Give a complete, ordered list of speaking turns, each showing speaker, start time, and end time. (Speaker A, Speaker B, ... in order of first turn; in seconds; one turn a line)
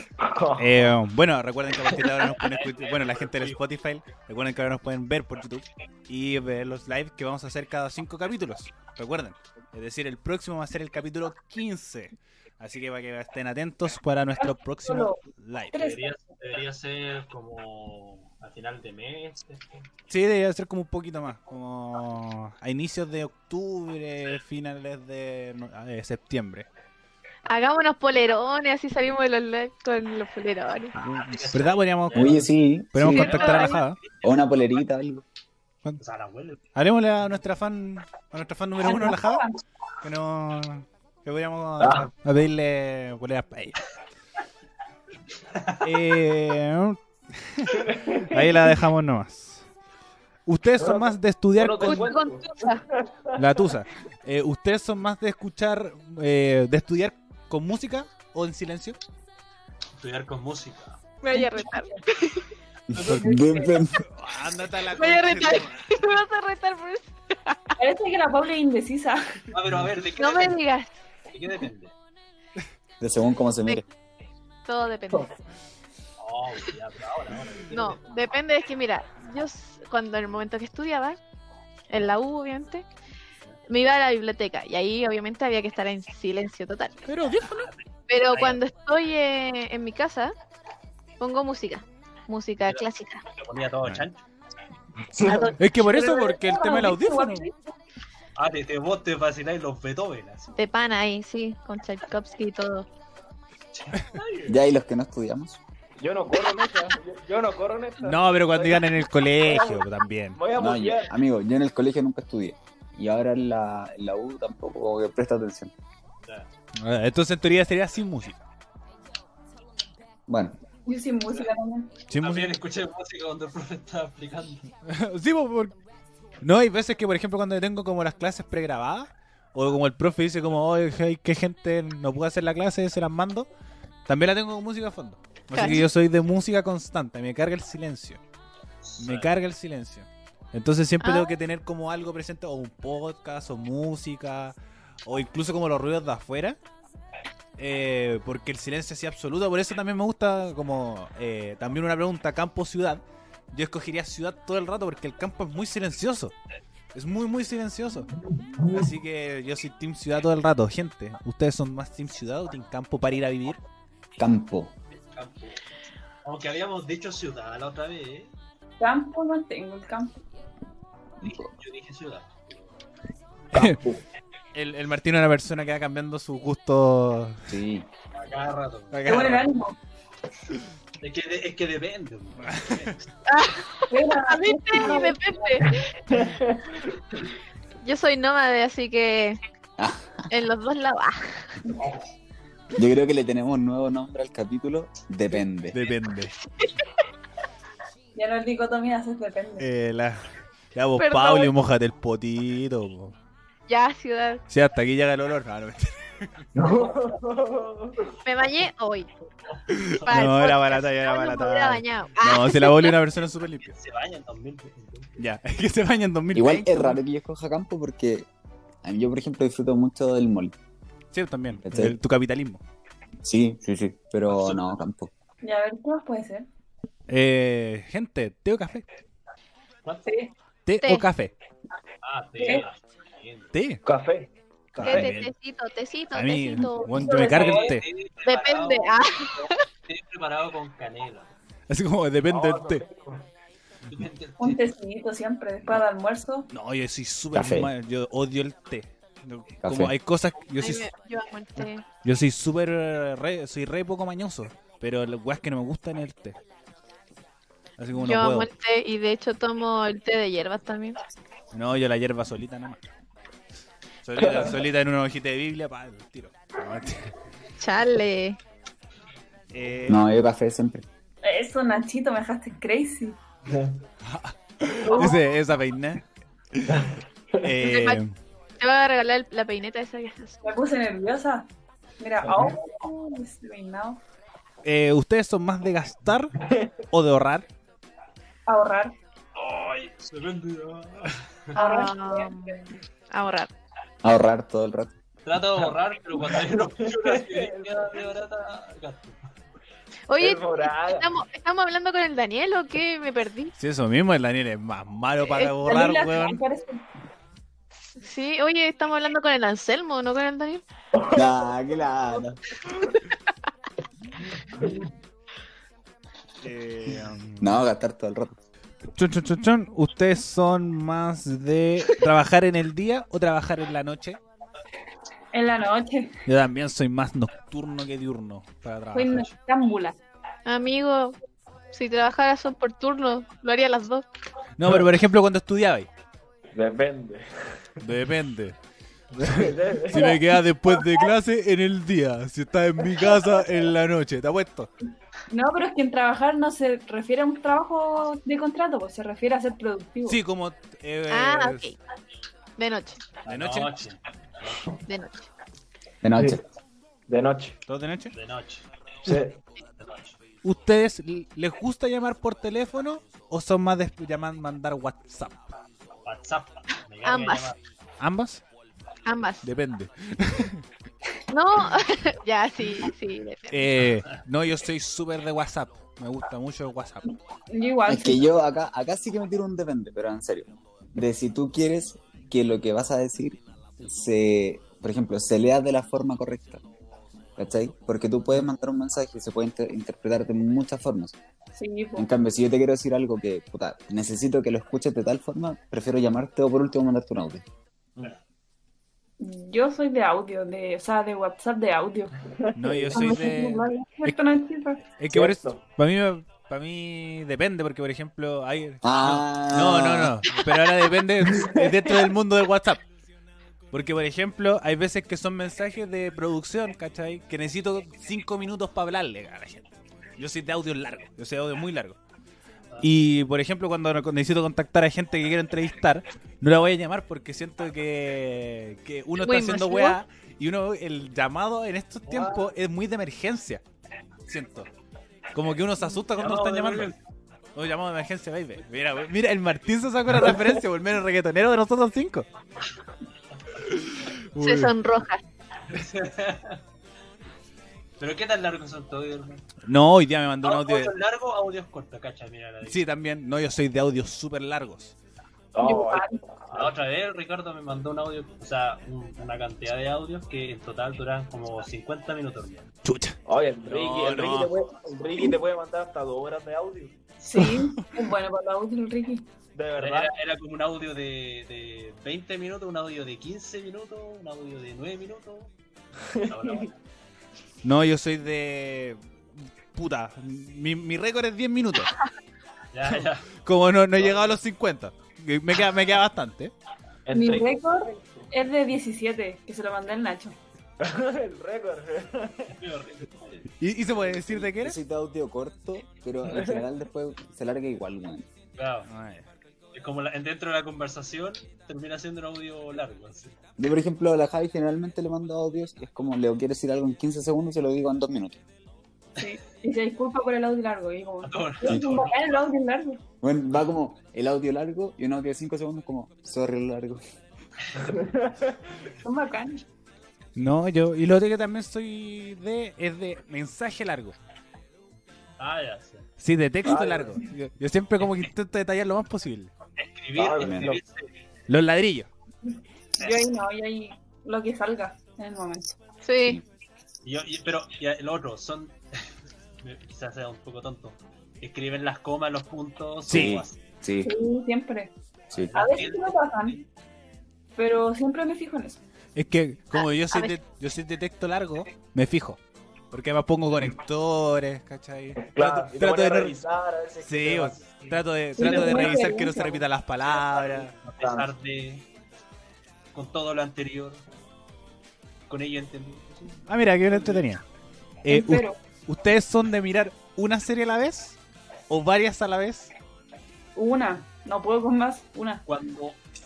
Speaker A: 0.2-0.9
Speaker B: 0.6-15.8
Speaker C: 2.3-3.6
Speaker D: 14.4-15.2
Speaker D: 15.7-16.2
Speaker C: 15.7-19.8
Speaker B: 20.1-26.7
Speaker E: 27.5-31.0
Speaker B: 31.0-34.0
Speaker C: 31.3-32.5
Speaker F: 32.1-33.4
Speaker E: 33.0-33.8
Speaker C: 33.1-33.9
Speaker F: 34.2-35.2
Speaker C: 36.0-36.6
Speaker B: 36.7-39.5
Speaker D: 38.8-39.6
Speaker B: 40.0-43.8
Speaker A: 41.8-42.1
Speaker C: 45.6-45.9
Speaker B: 45.8-49.7
Speaker A: 47.8-48.4
Speaker B: 50.5-52.1
Speaker A: 50.8-53.6
Speaker E: 51.8-52.8
Speaker B: 53.4-59.0
Speaker C: 60.0-61.0
Speaker E: 61.2-62.5
Speaker F: 62.9-64.0
Speaker C: 63.0-63.8
Speaker D: 63.1-63.7
Speaker B: 64.0-65.8
Speaker E: 64.9-67.6
Speaker D: 67.8-69.4
Speaker C: 69.5-70.6
Speaker E: 70.2-70.9
Speaker C: 71.3-71.9
Speaker F: 73.0-73.8
Speaker E: 74.7-75.3
Speaker C: 76.2-78.0
Speaker E: 77.7-81.2
Speaker E: 81.9-82.9
Speaker E: 83.7-87.1
Speaker B: 87.1-87.7
Speaker E: 88.1-90.3
Speaker C: 88.3-88.6
Speaker E: 91.2-93.2
Speaker C: 92.7-94.2
Speaker A: 95.1-95.6
Speaker E: 95.3-95.6
Speaker B: 95.6-97.5
Speaker D: 95.8-97.6
Speaker C: 98.4-100.6
Speaker E: 100.6-102.9
Speaker C: 103.7-104.6
Speaker F: 104.5-105.6
Speaker A: 106.0-111.1
Speaker B: 108.0-110.4
Speaker F: 110.5-115.7
Speaker B: 116.8-118.4
Speaker F: 120.3-120.6
Speaker D: 120.9-121.9
Speaker B: 122.1-122.5
Speaker C: 122.2-124.7
Speaker B: 124.8-125.8
Speaker B: 126.4-133.5
Speaker B: 134.1-138.2
Speaker E: 135.5-135.9
Speaker C: 138.8-139.3
Speaker B: 139.0-146.6
Speaker E: 141.0-141.4
Speaker B: 147.6-156.3
Speaker B: 156.9-158.1
Speaker A: 158.5-158.9
Speaker B: 158.7-163.6
Speaker F: 164.2-164.7
Speaker C: 165.2-165.6
Speaker C: 166.2-168.3
Speaker D: 168.8-170.2
Speaker F: 171.2-171.5
Speaker C: 171.6-172.7
Speaker A: 173.5-174.0
Speaker B: 173.5-173.8
Speaker B: 174.5-177.5
Speaker F: 177.5-177.9
Speaker C: 178.2-179.2
Speaker B: 178.9-179.5
Speaker D: 179.1-179.8
Speaker C: 181.0-183.0
Speaker B: 182.4-183.0
Speaker E: 183.3-185.9
Speaker D: 183.9-185.7
Speaker A: 186.1-186.8
Speaker E: 187.8-189.4
Speaker F: 189.8-190.2
Speaker E: 190.3-191.5
Speaker F: 192.7-195.8
Speaker B: 195.7-196.3
Speaker D: 198.2-199.7
Speaker B: 199.6-203.1
Speaker E: 201.0-201.5
Speaker E: 203.7-204.4
Speaker B: 204.5-206.3
Speaker A: 206.6-208.1
Speaker E: 208.2-209.1
Speaker C: 209.5-210.3
Speaker B: 209.7-213.7
Speaker E: 210.1-213.0
Speaker C: 213.7-215.2
Speaker B: 215.2-217.0
Speaker F: 216.3-218.3
Speaker F: 218.8-220.6
Speaker B: 221.1-222.6
Speaker F: 221.6-222.0
Speaker F: 223.2-225.1
Speaker C: 224.3-224.6
Speaker D: 225.4-226.5
Speaker B: 227.1-228.9
Speaker C: 229.8-230.1
Speaker D: 230.1-230.3
Speaker B: 230.7-231.3
Speaker E: 230.8-231.1
Speaker C: 232.0-233.5
Speaker D: 232.4-232.7
Speaker B: 233.5-233.8
Speaker A: 233.8-235.1
Speaker B: 234.8-235.3
Speaker E: 234.8-237.2
Speaker B: 236.1-237.9
Speaker D: 237.0-237.7
Speaker C: 237.2-241.3
Speaker E: 238.2-239.6
Speaker B: 241.7-242.8
Speaker A: 242.3-243.2
Speaker C: 243.9-244.6
Speaker D: 244.4-246.5
Speaker B: 246.5-250.9
Speaker F: 247.3-247.7
Speaker F: 249.6-249.9
Speaker E: 250.6-251.9
Speaker B: 252.0-256.4
Speaker B: 257.8-258.5
Speaker E: 257.9-261.0
Speaker B: 261.5-262.8
Speaker B: 264.1-267.1
Speaker A: 264.2-264.6
Speaker E: 267.6-268.4
Speaker B: 269.5-270.0
Speaker F: 269.9-270.9
Speaker D: 271.2-273.2
Speaker A: 273.5-273.8
Speaker B: 274.0-276.0
Speaker D: 274.8-275.2
Speaker B: 276.5-276.8
Speaker A: 276.7-277.5
Speaker B: 277.4-278.1
Speaker E: 277.6-278.0
Speaker E: 278.6-280.4
Speaker D: 280.4-281.5
Speaker D: 282.0-284.0
Speaker A: 282.2-282.6
Speaker B: 284.6-286.3
Speaker B: 286.9-287.5
Speaker D: 288.5-288.9
Speaker C: 289.4-291.6
Speaker E: 291.5-293.5
Speaker D: 291.6-292.6
Speaker F: 294.0-294.9
Speaker C: 295.2-299.3
Speaker A: 295.6-298.0
Speaker E: 300.1-303.5
Speaker A: 300.2-301.1
Speaker B: 303.6-306.4
Speaker D: 305.4-306.9
Speaker E: 308.0-310.6
Speaker A: 310.9-311.6
Speaker F: 311.1-312.4
Speaker A: 314.5-314.9
Speaker B: 316.4-317.6
Speaker F: 317.4-318.4
Speaker B: 318.9-324.2
Speaker D: 325.3-326.1
Speaker B: 326.3-329.3
Speaker D: 328.9-330.0
Speaker E: 330.5-331.2
Speaker E: 331.7-334.1
Speaker B: 334.6-335.9
Speaker A: 336.5-337.6
Speaker B: 337.8-338.6
Speaker A: 339.2-340.2
Speaker B: 339.2-344.7
Speaker D: 345.3-350.2
Speaker B: 350.1-351.7
Speaker E: 351.1-351.8
Speaker E: 352.6-353.0
Speaker C: 353.2-354.7
Speaker B: 353.3-353.8
Speaker E: 354.9-355.3
Speaker F: 356.0-356.4
Speaker A: 356.1-356.4
Speaker A: 357.1-357.6
Speaker B: 357.7-358.1
Speaker C: 358.1-358.7
Speaker A: 359.1-359.4
Speaker C: 359.8-360.2
Speaker B: 360.4-365.5
Speaker C: 366.1-367.6
Speaker E: 367.1-367.5
Speaker B: 368.0-368.4
Speaker E: 369.1-369.4
Speaker B: 369.4-370.6
Speaker E: 371.3-373.8
Speaker B: 373.5-377.2
Speaker D: 377.1-378.2
Speaker F: 377.9-386.6
Speaker F: 387.4-391.2
Speaker D: 391.6-392.1
Speaker F: 392.0-397.4
Speaker D: 399.2-402.2
Speaker A: 402.4-403.2
Speaker B: 402.6-404.2
Speaker D: 402.9-404.8
Speaker B: 404.9-412.8
Speaker A: 405.1-405.6
Speaker F: 408.8-410.2
Speaker A: 411.3-411.9
Speaker B: 413.7-422.0
Speaker B: 422.8-433.6
Speaker E: 429.2-430.0
Speaker C: 432.1-432.4
Speaker B: 434.3-434.7
Speaker B: 435.3-436.9
Speaker C: 436.2-437.0
Speaker B: 437.6-442.3
Speaker B: 443.6-444.7
Speaker E: 444.4-445.2
Speaker C: 445.7-446.6
Speaker C: 448.0-449.5
Speaker B: 449.6-450.9
Speaker C: 450.4-452.8
Speaker B: 452.6-454.9
Speaker A: 455.6-456.7
Speaker D: 455.6-456.2
Speaker C: 456.5-462.7
Speaker B: 462.8-464.5
Speaker A: 463.3-467.0
Speaker D: 467.2-469.3
Speaker B: 467.3-467.9
Speaker A: 469.6-470.1
Speaker C: 469.8-475.5
Speaker A: 476.2-476.7
Speaker C: 476.3-476.8
Speaker B: 477.6-479.0
Speaker B: 479.7-481.9
Speaker C: 482.7-483.3
Speaker B: 483.4-486.5
Speaker A: 484.0-484.3
Speaker A: 487.1-488.2
Speaker D: 487.1-490.4
Speaker A: 490.8-492.5
Speaker C: 492.5-493.5
Speaker B: 493.6-494.8
Speaker F: 494.2-498.3
Speaker A: 496.3-496.6
Speaker C: 498.6-498.9
Speaker B: 498.9-499.3
Speaker C: 499.7-503.4
Speaker F: 503.6-508.4
Speaker D: 509.2-513.0
Speaker C: 511.2-512.4
Speaker F: 511.6-511.9
Speaker F: 513.2-517.0
Speaker A: 517.8-518.6
Speaker D: 519.0-519.6
Speaker B: 520.4-524.1
Speaker C: 525.4-526.1
Speaker B: 526.2-529.5
Speaker A: 526.6-527.2
Speaker C: 529.8-531.1
Speaker A: 530.1-530.8
Speaker F: 530.4-530.8
Speaker B: 531.5-532.1
Speaker D: 533.0-535.7
Speaker E: 536.0-536.4
Speaker C: 537.0-538.8
Speaker C: 539.6-543.6
Speaker B: 543.1-543.4
Speaker F: 543.1-544.1
Speaker D: 544.0-544.9
Speaker C: 545.4-546.6
Speaker D: 545.5-546.6
Speaker D: 547.6-548.8
Speaker B: 549.1-552.4
Speaker E: 549.7-550.4
Speaker B: 552.9-556.4
Speaker A: 555.2-559.1
Speaker B: 557.0-560.7
Speaker D: 558.4-559.6
Speaker C: 560.1-561.9
Speaker A: 561.0-561.3
Speaker C: 562.9-564.0
Speaker C: 565.3-566.4
Speaker B: 566.5-567.4
Speaker B: 568.0-571.2
Speaker D: 568.1-568.6
Speaker B: 571.7-572.7
Speaker D: 573.5-575.4
Speaker C: 575.5-576.0